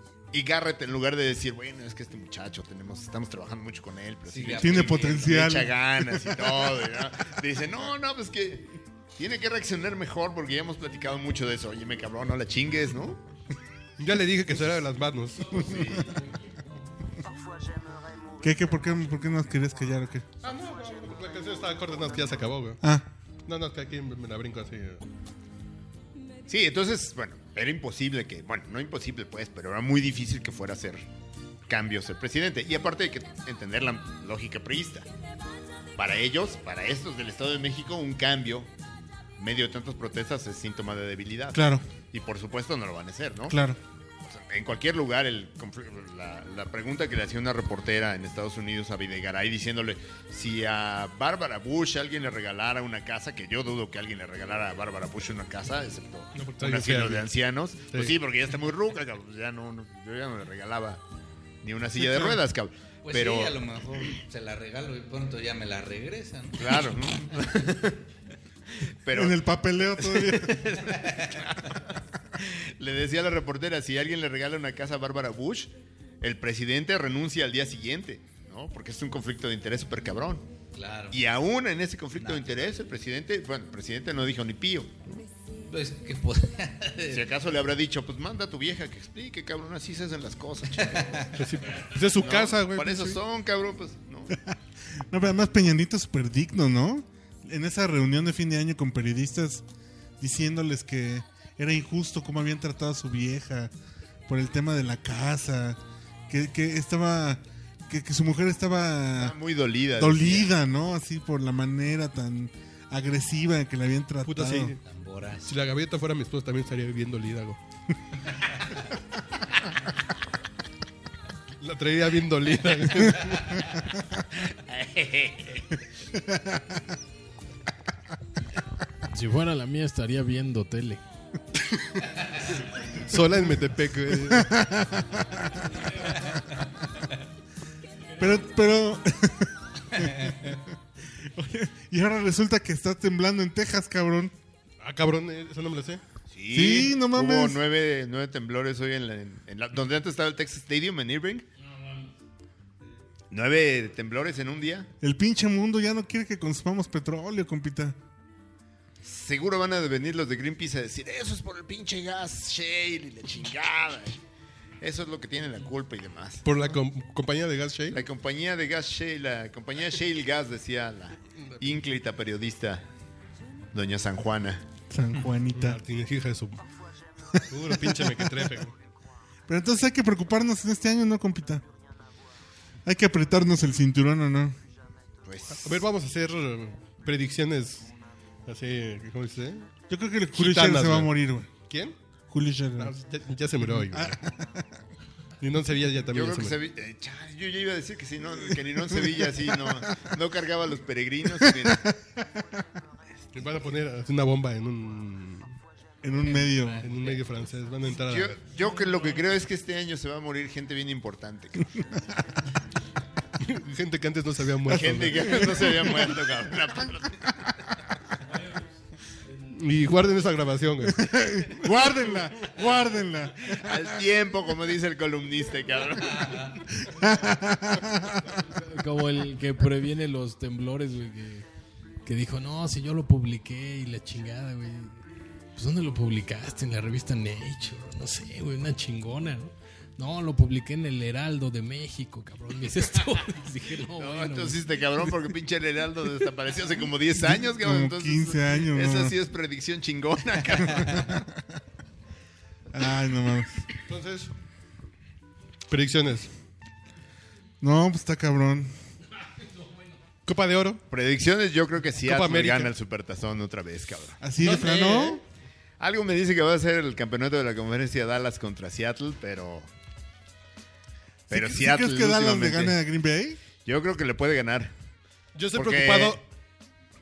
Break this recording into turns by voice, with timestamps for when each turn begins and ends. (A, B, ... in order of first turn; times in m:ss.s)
0:00.3-0:13.2 A
0:04.3-0:05.5 B
0:04.5-0:06.9 C
0:14.0-0:15.6 D
0:15.4-0:16.9 E
0:15.6-0:16.2 A
0:18.4-0:20.3 C
0:20.4-0:22.8 D
0:22.8-0:23.1 C
0:23.5-0:25.0 D
0:26.5-0:31.1 A
0:31.7-0:35.1 A
0:36.0-0:38.7 A
0:39.4-0:43.6 A
0:41.5-0:41.9 C
0:43.5-0:43.8 C
0:44.2-1:01.0 A
0:56.4-0:57.3 D
0:57.9-0:58.2 D
1:01.6-1:04.1 A
1:02.1-1:02.4 D
1:03.0-1:07.5 B
1:06.6-1:08.0 A
1:09.0-1:09.4 A
1:09.1-1:10.7 C
1:10.0-1:20.5 A
1:10.9-1:11.5 B
1:20.7-1:21.2 B
1:21.1-1:25.2 A
1:22.2-1:22.4 B
1:25.7-1:27.3 B
1:27.1-1:31.3 A
1:30.8-1:31.3 B
1:31.3-1:33.2 D
1:32.2-1:34.4 A
1:34.3-1:39.6 C
1:40.2-1:43.7 C
1:44.3-1:49.4 C
1:49.2-1:50.5 A
1:50.0-1:54.7 C
1:54.2-1:54.8 D
1:54.9-1:55.5 B
1:55.4-1:57.6 D
2:01.6-2:03.7 D
2:04.7-2:05.5 A
2:06.1-2:06.8 C
2:09.1-2:11.0 E
2:12.9-2:14.6 D
2:14.2-2:16.2 C
2:15.7-2:16.2 E
2:18.2-2:24.3 C
2:24.8-2:26.0 D
2:26.3-2:31.5 A
2:26.5-2:27.6 C
2:31.6-2:32.1 E
2:33.3-2:34.9 A
2:35.0-2:38.0 C
2:39.0-2:44.2 A
2:44.8-2:46.8 A
2:46.4-2:48.0 D
2:47.9-2:52.8 A
2:53.7-2:54.6 A
2:54.9-2:55.8 C
2:55.5-2:56.6 D
2:57.5-2:58.8 D
2:57.7-2:58.3 C
2:59.5-3:01.6 C
3:02.8-3:04.6 C
3:05.2-3:05.8 A
3:05.5-3:07.9 D
3:08.5-3:09.7 D
3:09.9-3:11.5 C
3:10.3-3:12.0 D
3:12.3-3:12.9 C
3:12.8-3:14.2 D
3:13.7-3:14.8 C
3:15.4-3:16.6 D
3:16.1-3:21.9 A
3:18.5-3:20.1 C
3:21.3-3:22.6 C
3:23.3-3:25.6 D
3:26.0-3:26.8 C
3:26.3-3:27.2 B
3:26.8-3:28.4 D
3:27.9-3:31.8 A
3:33.4-3:35.7 D
3:34.7-3:37.8 A
3:38.2-3:38.7 E
3:39.2-3:39.6 E
3:39.5-3:41.1 D
3:40.9-3:44.1 C
3:43.4-3:46.6 A
3:46.0-3:46.6 B
3:46.7-3:48.4 C
3:47.0-3:47.3 E
3:48.2-3:51.5 E
3:52.0-4:05.2 E
4:04.0-4:11.2 A
4:07.1-4:09.2 C
4:10.8-4:11.4 C
4:12.7-4:13.6 C
4:13.9-4:14.3 D
4:15.7-4:16.3 D
4:17.6-4:18.7 C
4:20.3-4:20.8 D
4:20.9-4:24.2 A
4:22.0-4:22.7 D
4:24.2-4:25.2 C
4:24.4-4:25.2 D
4:25.8-4:29.7 A
4:31.3-4:32.8 A
4:31.3-4:33.4 C
4:33.6-4:34.7 A
4:35.4-4:36.2 D
4:35.5-4:36.2 A